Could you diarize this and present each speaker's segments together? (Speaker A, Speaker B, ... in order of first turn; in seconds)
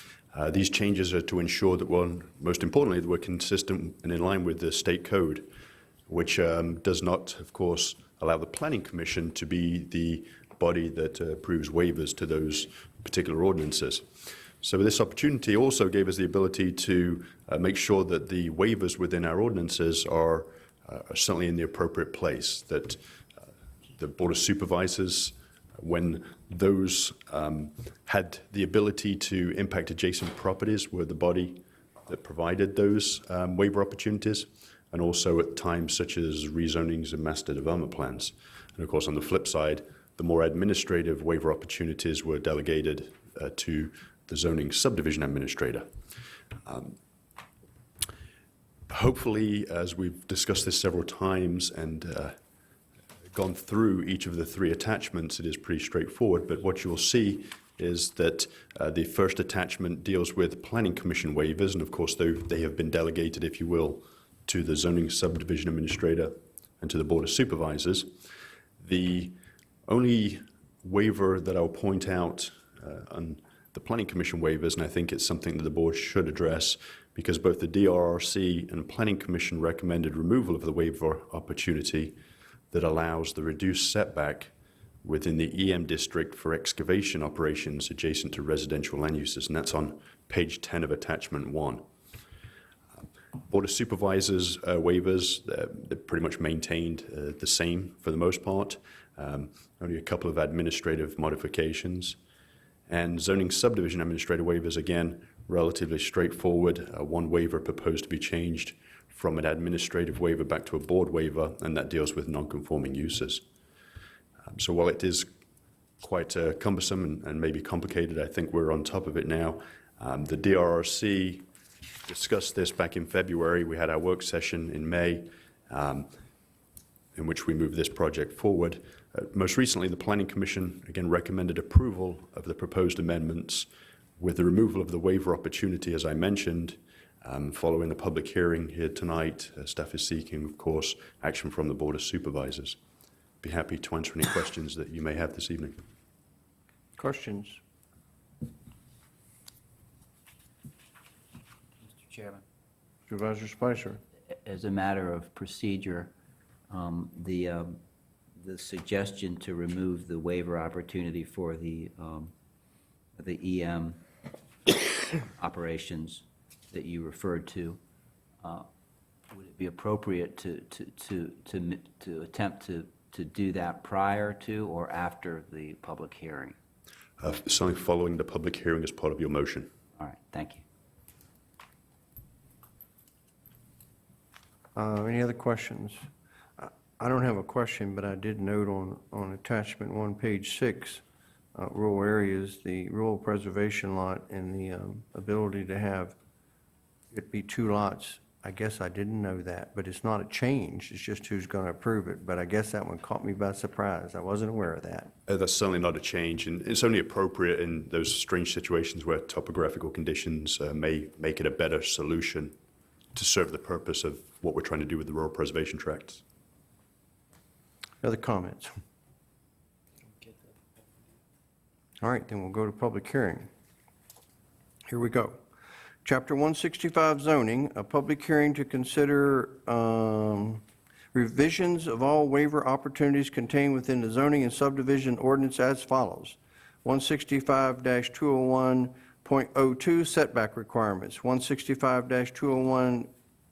Speaker A: 0.3-5.5, 6.1-14.1, 14.6-23.0, 24.0-45.9, 46.6-47.0, 48.9-52.4, 53.3-68.1, 68.8-69.3, 69.9-82.2, 82.7-84.5, 85.0-91.8, 93.5-102.2, 102.9-113.4, 114.5-115.3, 116.0-121.5, 122.1-126.1, 127.1-142.8, 143.4-145.8, 177.2-179.7, 205.3-212.5, 213.1-216.2
Speaker B: 147.0-147.6, 153.1-154.0, 184.7-186.0, 186.6-191.0, 191.5-196.2, 197.1-205.1, 218.0-218.7, 222.0-223.5, 224.9-225.4, 226.0-230.6, 231.1-243.1
Speaker C: 151.8-152.4, 154.4-156.1, 156.7-157.8, 158.4-162.3, 163.2-164.0, 165.2-167.8, 169.3-176.5, 180.0-180.6